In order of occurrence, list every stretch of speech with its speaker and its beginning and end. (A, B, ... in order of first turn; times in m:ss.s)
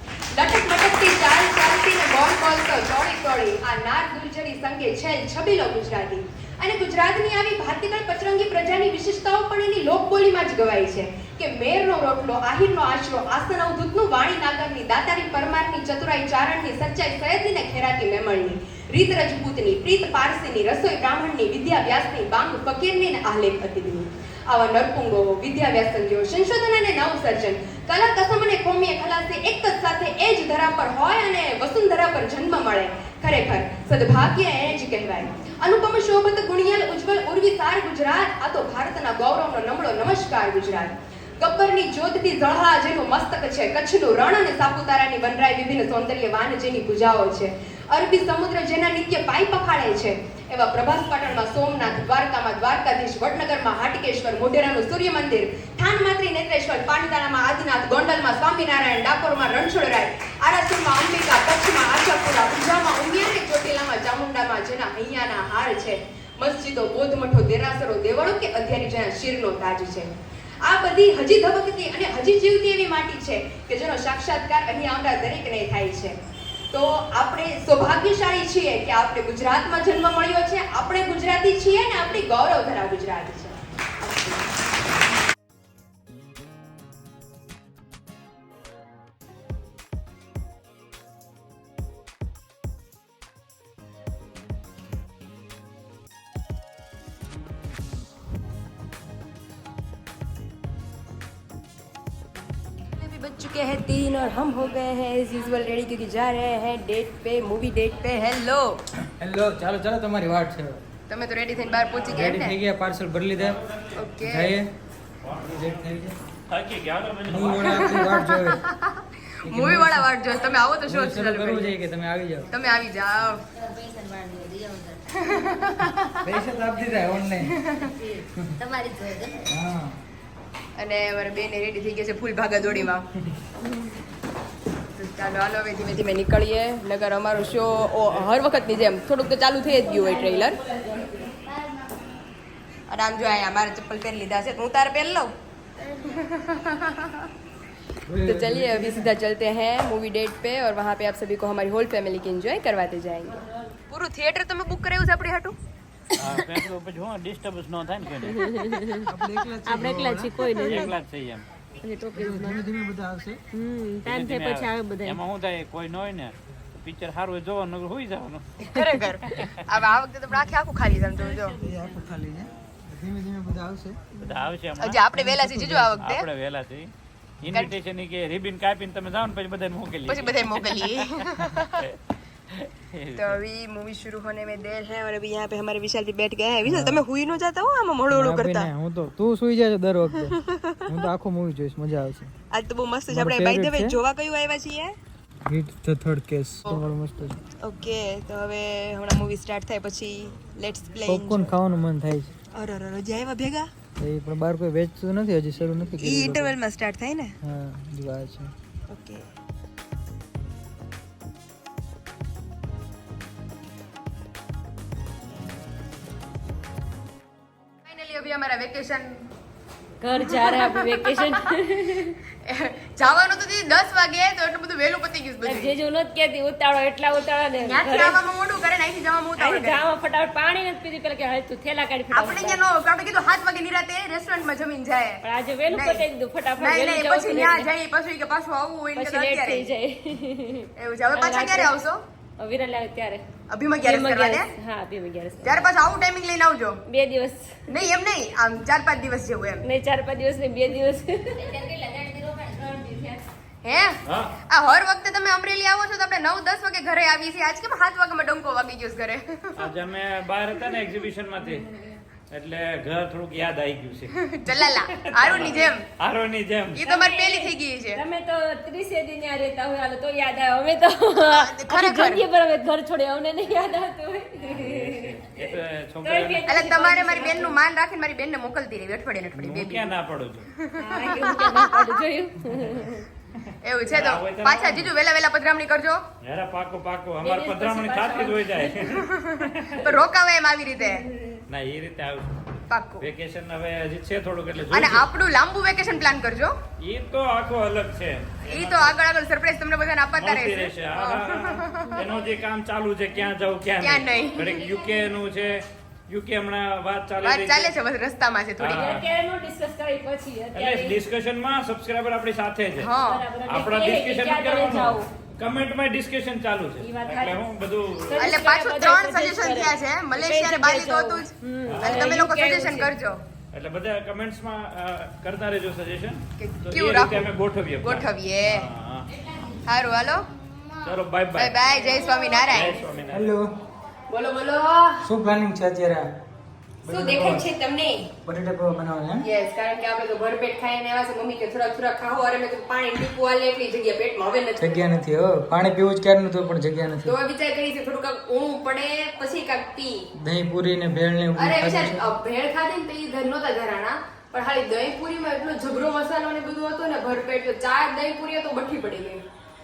0:00.3-1:10.1 A
1:10.7-1:16.2 A
1:16.7-1:24.5 A
1:43.0-1:48.8 A
1:49.2-1:50.8 B
1:51.1-1:52.6 A
1:52.1-1:53.6 B
1:53.4-1:54.0 C
1:53.9-1:54.6 A
1:54.2-1:54.7 B
1:55.2-1:55.8 C
1:55.4-1:56.2 B
1:56.5-1:58.0 C
1:57.3-1:58.6 B
1:57.6-2:01.8 A
1:59.4-2:00.1 B
2:00.8-2:02.5 B
2:02.5-2:03.4 A
2:03.5-2:05.4 D
2:05.2-2:06.2 A
2:06.2-2:07.6 B
2:07.4-2:07.9 A
2:07.8-2:09.5 D
2:09.5-2:10.0 B
2:10.8-2:13.1 A
2:15.0-2:20.6 A
2:20.1-2:21.4 E
2:21.3-2:21.8 D
2:22.9-2:25.3 A
2:26.1-2:27.3 A
2:28.1-2:29.0 B
2:28.2-2:33.4 A
2:33.9-2:35.6 A
2:36.2-2:38.4 C
2:38.2-2:39.1 E
2:39.1-2:40.9 B
2:39.6-2:40.9 E
2:40.6-2:41.5 C
2:41.8-2:42.6 E
2:42.1-2:43.4 B
2:43.5-2:45.2 E
2:44.0-2:48.4 C
2:48.6-2:51.6 A
2:51.6-2:54.0 B
2:54.2-2:56.9 C
2:54.8-2:56.3 A
2:55.3-2:56.0 B
2:57.4-3:01.1 C
3:00.1-3:01.8 A
3:02.5-3:03.4 C
3:03.2-3:08.7 A
3:06.6-3:07.0 B
3:08.1-3:10.4 B
3:10.1-3:11.0 A
3:10.9-3:12.3 B
3:12.5-3:15.0 A
3:13.1-3:14.0 B
3:15.5-3:17.4 B
3:17.6-3:21.5 A
3:21.0-3:22.3 B
3:22.5-3:23.7 A
3:24.0-3:26.6 B
3:26.0-3:27.4 A
3:27.4-3:28.5 B
3:28.9-3:29.3 A
3:37.8-3:39.3 A
3:40.0-3:42.2 E
3:40.2-3:41.3 A
3:42.4-3:45.8 A
3:45.4-3:48.2 E
3:47.6-3:49.8 A
3:49.4-3:52.6 E
3:52.1-3:56.0 A
3:55.2-3:57.7 E
3:56.6-3:59.7 A
3:58.9-4:01.8 E
4:00.8-4:02.0 A
4:02.4-4:03.2 E
4:03.5-4:04.5 A
4:03.8-4:05.6 E
4:05.4-4:06.8 A
4:06.9-4:07.5 E
4:07.7-4:09.6 A
4:09.6-4:11.4 E
4:11.4-4:13.2 D
4:13.6-4:19.7 A
4:14.1-4:14.3 C
4:19.6-4:21.7 C
4:21.6-4:21.9 E
4:22.3-4:26.8 C
4:24.1-4:25.8 A
4:26.8-4:28.0 A
4:26.8-4:35.2 E
4:31.3-4:32.2 A
4:34.5-4:36.4 C
4:36.0-4:37.6 E
4:36.4-4:39.9 A
4:39.3-4:40.5 C
4:40.6-4:41.8 A
4:40.8-4:43.1 E
4:43.6-4:46.0 A
4:43.9-4:44.9 C
4:46.2-4:49.8 C
4:47.2-4:48.9 E
4:48.9-4:51.0 A
4:50.8-4:51.4 E
4:51.5-4:52.5 C
4:52.7-4:53.1 A
4:53.0-4:55.1 C
4:54.7-4:56.6 A
4:56.8-4:59.0 C
4:58.5-5:02.0 A
5:00.2-5:07.7 C
5:03.8-5:04.6 A
5:07.2-5:08.9 A
5:08.6-5:09.0 C
5:08.7-5:11.0 E
5:10.5-5:12.9 C
5:12.8-5:13.2 A
5:13.0-5:15.1 E
5:13.5-5:18.4 C
5:16.8-5:22.9 E
5:18.2-5:23.2 A
5:21.7-5:22.2 C
5:23.5-5:29.1 C
5:26.4-5:27.3 A
5:27.8-5:28.7 A
5:29.6-5:30.3 A
5:30.8-5:31.6 C
5:31.4-5:32.8 A
5:32.5-5:33.3 C
5:33.1-5:33.5 B
5:34.1-5:35.1 A
5:35.0-5:36.1 B
5:36.8-5:37.4 B
5:36.9-5:38.1 A
5:38.2-5:39.2 B
5:39.2-5:44.8 A
5:44.6-5:47.1 B
5:47.0-5:50.1 A
5:50.2-5:52.0 B
5:51.4-5:59.2 A